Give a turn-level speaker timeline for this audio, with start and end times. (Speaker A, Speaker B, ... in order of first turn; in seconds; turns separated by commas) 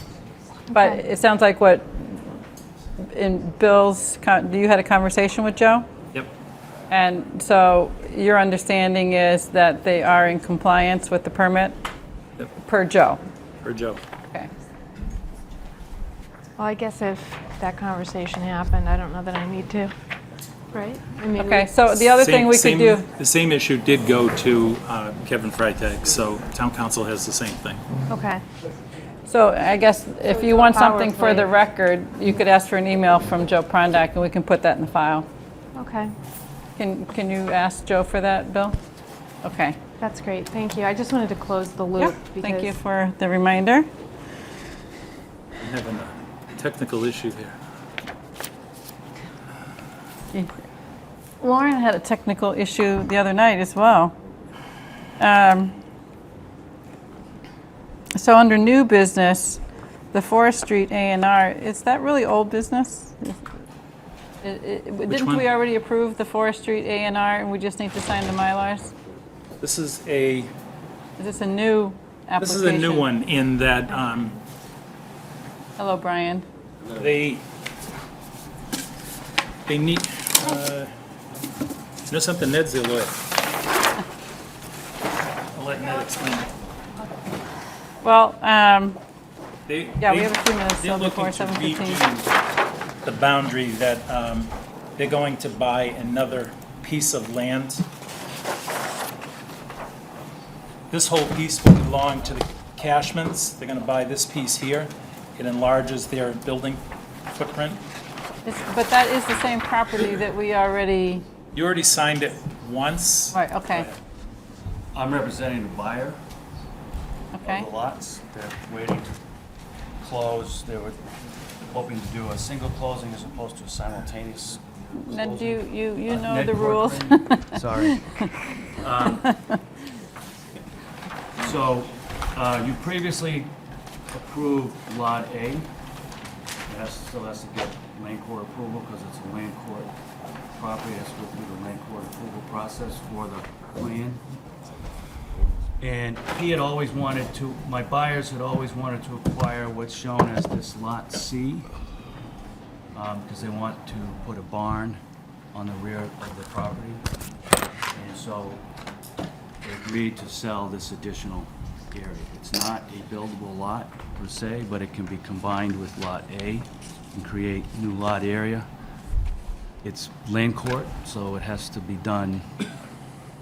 Speaker A: 0.7-1.0, Speaker B: 0.7-2.3, Speaker B: 3.0-5.9, Speaker B: 6.9-11.8, Speaker B: 12.6-13.2, Speaker C: 13.6-14.0, Speaker A: 16.6-19.9, Speaker A: 20.7-21.7, Speaker B: 21.4-23.1, Speaker C: 22.0-27.9, Speaker A: 28.1-28.4, Speaker B: 29.3-35.3, Speaker A: 30.3-31.5, Speaker A: 35.7-36.1, Speaker B: 36.8-38.8, Speaker B: 39.4-39.8, Speaker A: 40.0-42.7, Speaker B: 42.0-43.9, Speaker C: 45.6-47.6, Speaker B: 51.4-54.2, Speaker B: 55.2-55.8, Speaker B: 58.1-59.6, Speaker B: 60.1-63.4, Speaker B: 64.4-68.9, Speaker C: 65.1-65.5, Speaker C: 69.6-70.5, Speaker B: 71.2-73.1, Speaker C: 72.4-74.4, Speaker B: 75.8-76.5, Speaker D: 76.9-77.1, Speaker C: 77.0-77.5, Speaker C: 79.7-80.9, Speaker C: 82.1-83.2, Speaker C: 85.5-86.5, Speaker B: 88.0-89.0, Speaker C: 89.7-92.3, Speaker B: 90.0-92.1, Speaker C: 93.0-97.9, Speaker C: 100.9-107.8, Speaker B: 108.5-111.2, Speaker C: 111.5-114.0, Speaker B: 113.3-113.9, Speaker D: 114.9-116.2, Speaker B: 117.3-117.7, Speaker D: 117.4-119.2, Speaker D: 120.0-121.0, Speaker D: 121.7-128.0, Speaker B: 125.0-128.5, Speaker D: 128.8-129.3, Speaker B: 129.2-129.6, Speaker D: 131.4-133.5, Speaker D: 134.1-135.7, Speaker D: 136.7-139.9, Speaker D: 140.6-144.2, Speaker D: 145.8-151.7, Speaker D: 152.9-155.0, Speaker D: 155.5-157.1, Speaker D: 157.9-158.7, Speaker D: 159.6-168.7, Speaker D: 169.8-172.5